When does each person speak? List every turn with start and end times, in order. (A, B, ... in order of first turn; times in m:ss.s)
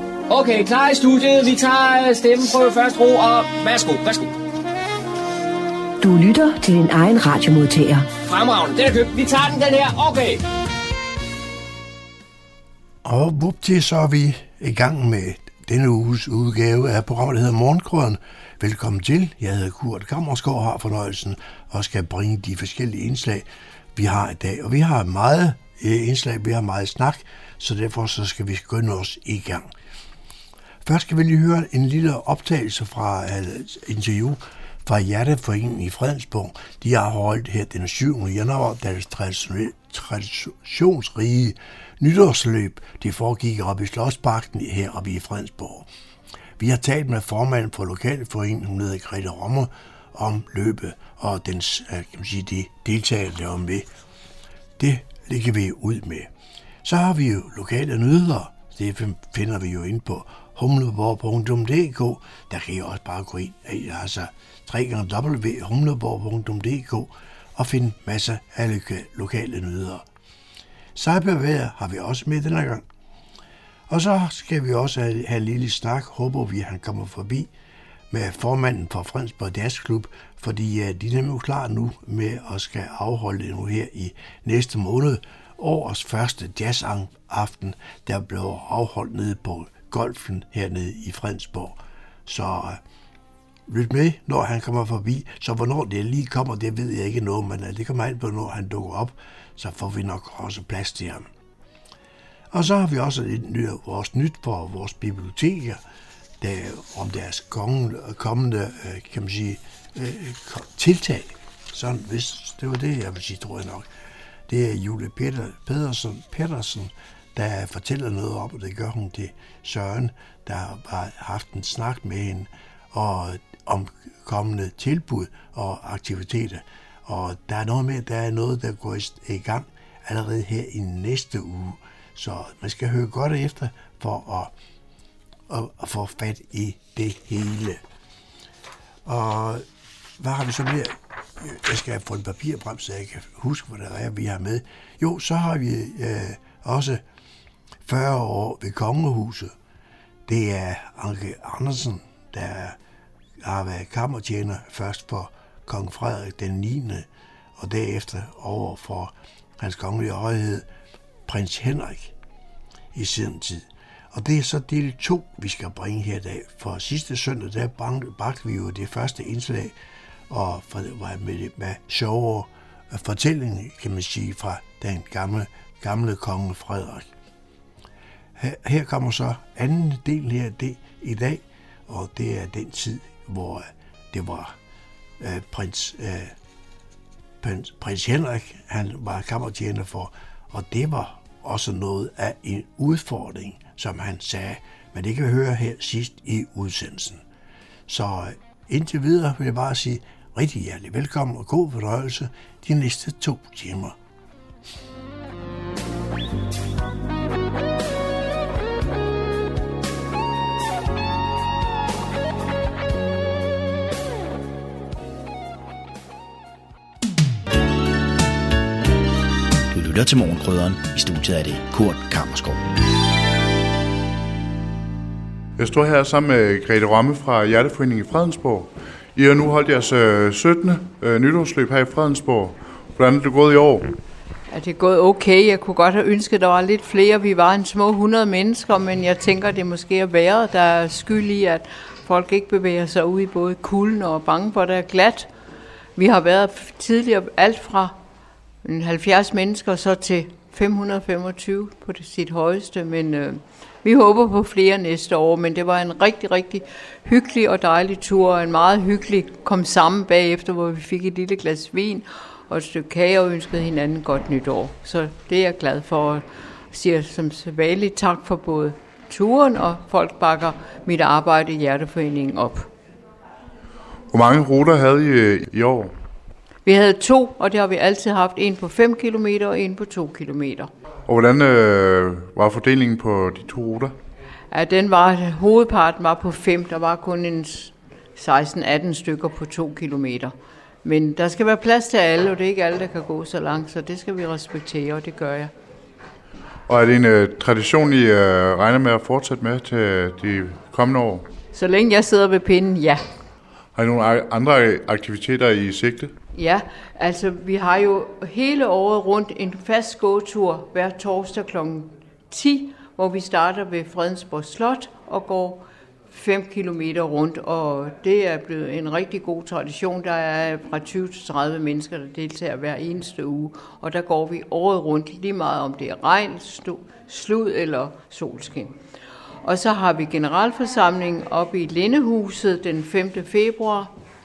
0:00.3-0:04.3 A
0:06.0-0:08.1 B
0:08.3-0:10.4 A
0:13.0-0:29.6 C
0:30.8-0:45.9 C
0:46.6-0:53.9 C
0:54.8-0:56.3 C
0:56.8-1:10.0 C
1:11.0-1:12.8 C
1:13.9-1:17.5 C
1:18.1-1:32.8 C
1:33.7-1:41.3 C
1:42.5-1:45.8 C
1:46.4-1:53.8 C
1:54.5-2:14.5 C
2:15.5-2:17.8 C
2:19.0-2:19.6 C
2:20.2-2:27.0 C
2:27.8-2:29.5 C
2:30.3-2:32.8 C
2:33.4-2:37.1 C
2:37.6-2:40.6 C
2:41.3-2:42.1 C
2:42.9-2:49.7 C
2:50.3-2:57.1 C
2:58.4-3:04.5 C
3:05.2-3:06.3 C
3:07.4-3:17.2 C
3:17.9-3:24.0 C
3:39.7-3:42.7 D
3:45.6-3:54.0 E
3:54.5-4:05.3 F
4:06.0-4:08.0 F
4:08.6-4:32.7 F
4:34.1-4:35.9 E
4:36.6-4:40.7 F
4:41.1-4:43.9 E
4:44.5-4:55.5 F
4:56.7-5:01.2 E
5:01.5-5:03.0 F
5:03.7-5:06.1 E
5:06.3-5:28.8 F
5:29.4-5:33.9 F